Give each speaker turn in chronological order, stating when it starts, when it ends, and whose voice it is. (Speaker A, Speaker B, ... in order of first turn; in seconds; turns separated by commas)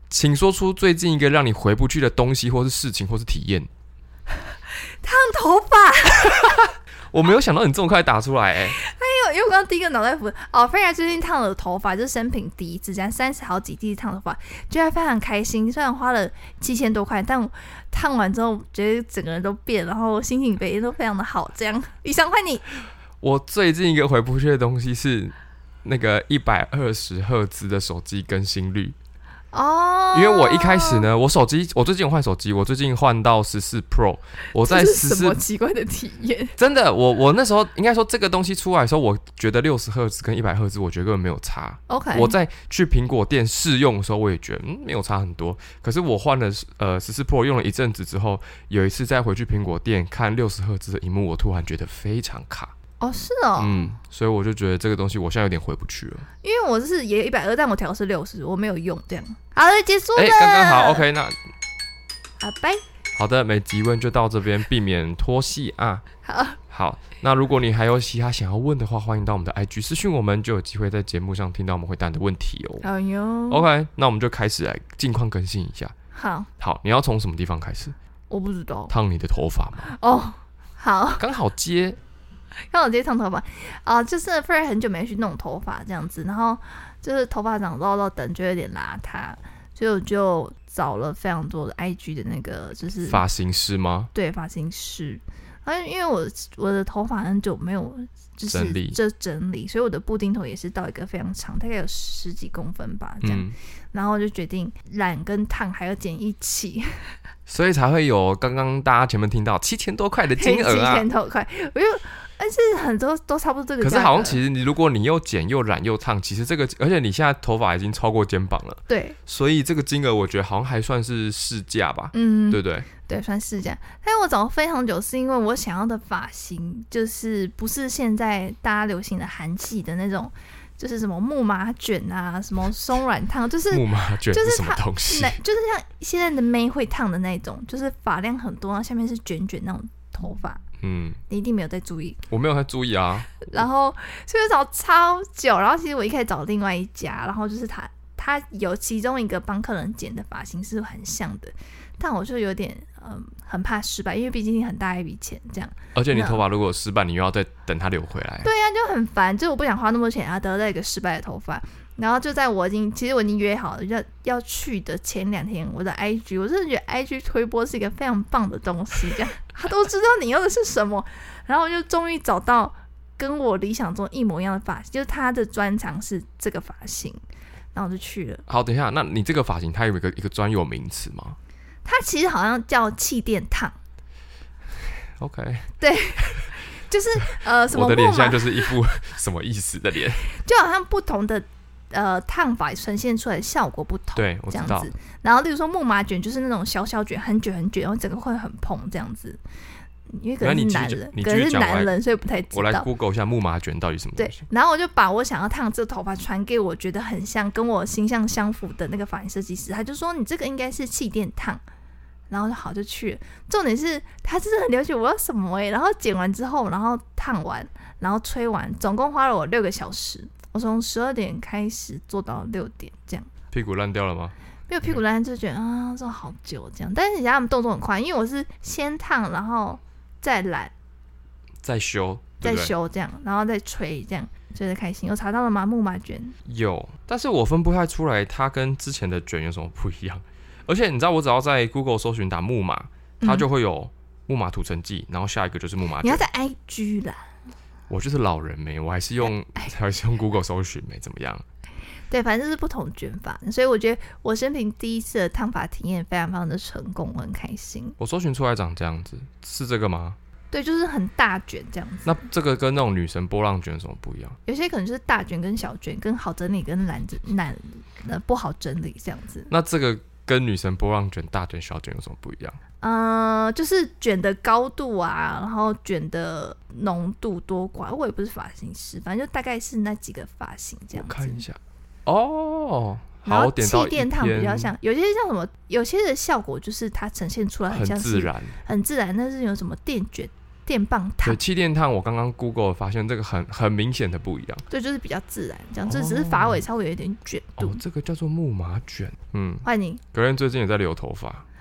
Speaker A: 0.1-3.7, Speaker B: 5.0-6.7, Speaker A: 6.3-6.6, Speaker A: 7.1-8.8, Speaker B: 8.7-22.6, Speaker A: 23.2-28.9, Speaker B: 29.5-31.1, Speaker A: 30.1-35.4, Speaker B: 34.6-36.5, Speaker A: 36.6-52.7, Speaker B: 41.9-42.4, Speaker B: 53.0-53.9, Speaker A: 53.6-56.3, Speaker B: 56.4-61.0, Speaker A: 60.2-61.4, Speaker B: 62.4-62.8, Speaker A: 63.1-66.0, Speaker B: 66.2-66.6, Speaker A: 66.7-72.9, Speaker B: 72.8-73.7, Speaker A: 73.5-76.0, Speaker B: 76.1-76.5, Speaker A: 76.6-78.0, Speaker B: 78.3-78.9, Speaker A: 78.9-79.9, Speaker B: 79.8-81.2, Speaker A: 81.2-82.0, Speaker B: 82.7-93.2, Speaker A: 93.0-94.1, Speaker B: 94.1-106.9, Speaker A: 98.5-99.0, Speaker A: 103.2-103.5, Speaker A: 107.5-111.1, Speaker B: 110.4-114.4, Speaker A: 113.8-122.9, Speaker B: 118.9-119.2, Speaker B: 122.1-140.6, Speaker A: 133.7-135.4, Speaker A: 140.8-141.2, Speaker B: 141.3-142.2, Speaker A: 142.3-143.7, Speaker B: 143.4-156.4, Speaker A: 155.9-158.5, Speaker B: 158.4-177.2, Speaker B: 177.8-178.4, Speaker A: 178.5-181.4, Speaker B: 181.8-183.8, Speaker A: 185.2-185.7, Speaker B: 185.8-188.7, Speaker A: 187.7-190.2, Speaker B: 190.3-199.4, Speaker A: 194.2-194.9, Speaker B: 200.1-202.9, Speaker A: 200.4-201.9, Speaker A: 202.5-204.4, Speaker B: 204.2-211.6, Speaker B: 212.3-223.3, Speaker A: 223.5-225.0, Speaker B: 224.7-230.7, Speaker A: 231.6-232.7, Speaker B: 232.4-236.4, Speaker A: 236.5-246.2, Speaker B: 243.2-243.5, Speaker B: 246.0-247.2, Speaker A: 247.9-251.4, Speaker B: 252.1-258.0, Speaker A: 258.0-260.2, Speaker B: 260.5-262.2, Speaker A: 262.1-264.4, Speaker B: 264.5-269.5, Speaker A: 269.5-272.6, Speaker B: 272.8-281.4, Speaker A: 280.9-284.7, Speaker B: 283.2-291.4, Speaker A: 287.7-288.6, Speaker A: 291.2-294.6, Speaker B: 294.7-297.8, Speaker A: 295.9-296.6, Speaker A: 297.6-301.4, Speaker B: 299.6-300.0